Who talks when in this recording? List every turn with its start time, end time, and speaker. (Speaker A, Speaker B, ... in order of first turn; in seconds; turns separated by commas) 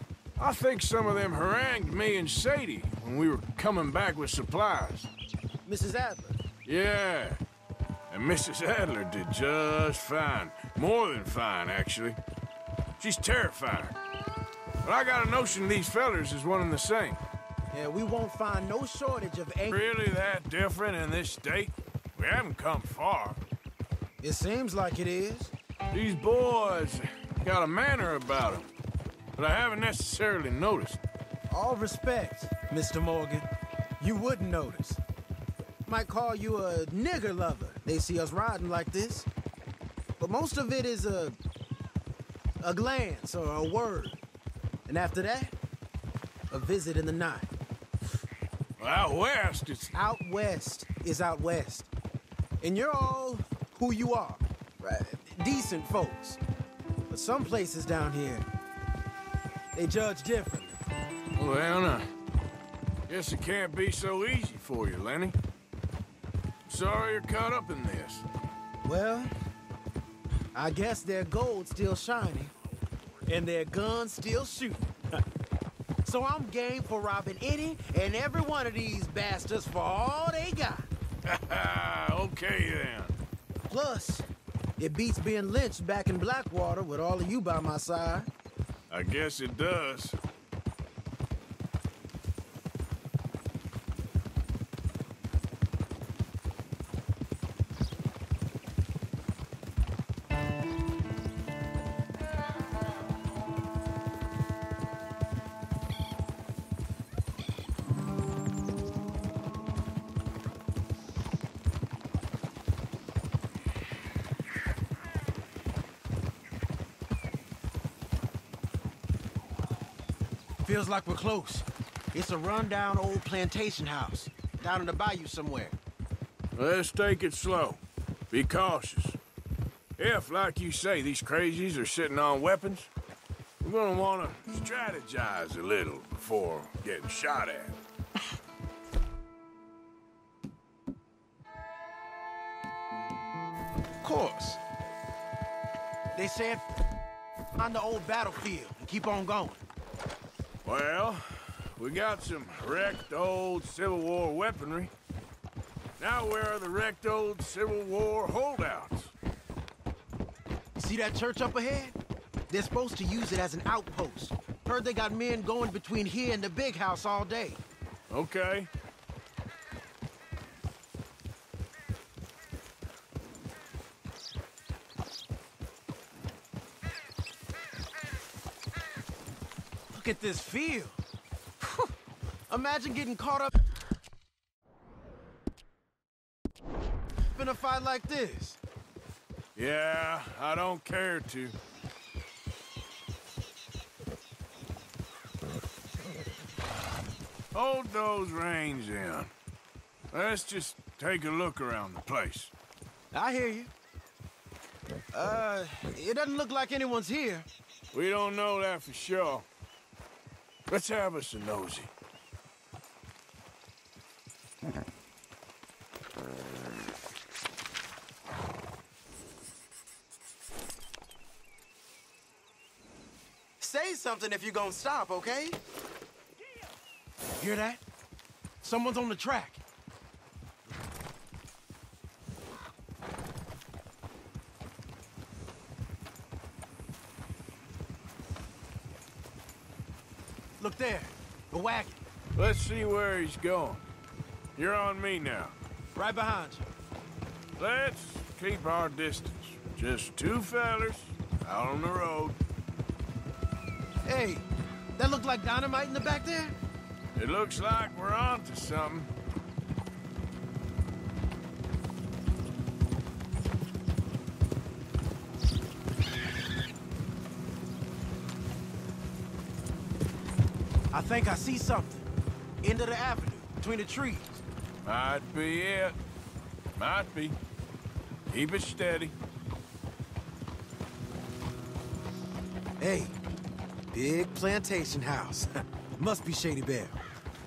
Speaker A: 0.4-5.1, Speaker B: 5.7-6.4, Speaker A: 6.7-7.4, Speaker A: 8.1-12.2, Speaker A: 13.0-14.0, Speaker A: 14.8-17.2, Speaker B: 17.7-19.9, Speaker A: 19.7-23.4, Speaker B: 24.2-25.5, Speaker A: 25.9-28.7, Speaker A: 29.4-31.0, Speaker B: 31.5-33.5, Speaker B: 34.0-35.0, Speaker B: 35.9-39.3, Speaker B: 40.2-41.4, Speaker B: 42.6-44.2, Speaker B: 44.9-45.5, Speaker B: 46.5-47.5, Speaker A: 48.8-49.9, Speaker B: 49.9-51.9, Speaker B: 52.6-56.4, Speaker B: 57.1-58.5, Speaker B: 59.7-60.8, Speaker A: 61.4-62.1, Speaker A: 63.1-65.4, Speaker A: 66.7-68.2, Speaker B: 68.8-69.3, Speaker B: 70.5-72.5, Speaker B: 73.3-74.9, Speaker B: 76.0-80.9, Speaker A: 81.3-83.2, Speaker B: 83.7-84.3, Speaker B: 84.8-88.3, Speaker A: 88.9-90.2, Speaker B: 120.6-125.8, Speaker A: 126.5-129.2, Speaker A: 130.0-132.9, Speaker A: 133.6-137.8, Speaker B: 144.0-144.6, Speaker B: 146.2-146.7, Speaker B: 147.6-149.6, Speaker A: 150.7-154.9, Speaker A: 156.0-159.1, Speaker B: 160.8-162.0, Speaker B: 162.5-167.6, Speaker A: 168.1-168.7, Speaker B: 179.9-181.0, Speaker B: 181.6-181.9, Speaker B: 182.5-183.6, Speaker B: 187.3-188.6, Speaker A: 189.6-191.6, Speaker A: 197.5-199.3, Speaker A: 200.1-202.5, Speaker B: 203.1-203.7, Speaker B: 205.1-207.5, Speaker A: 207.9-209.5, Speaker A: 210.7-211.9, Speaker B: 223.6-225.6, Speaker B: 227.4-227.8, Speaker B: 228.6-229.6, Speaker B: 240.6-242.0, Speaker A: 242.3-243.8, Speaker A: 244.6-245.6, Speaker B: 245.9-246.7, Speaker A: 247.6-252.4, Speaker B: 254.1-256.6, Speaker A: 257.1-259.1, Speaker B: 270.9-272.1, Speaker B: 272.6-274.4, Speaker A: 274.8-276.0, Speaker A: 276.8-277.4, Speaker A: 278.3-279.1, Speaker B: 282.8-283.1, Speaker B: 283.9-287.0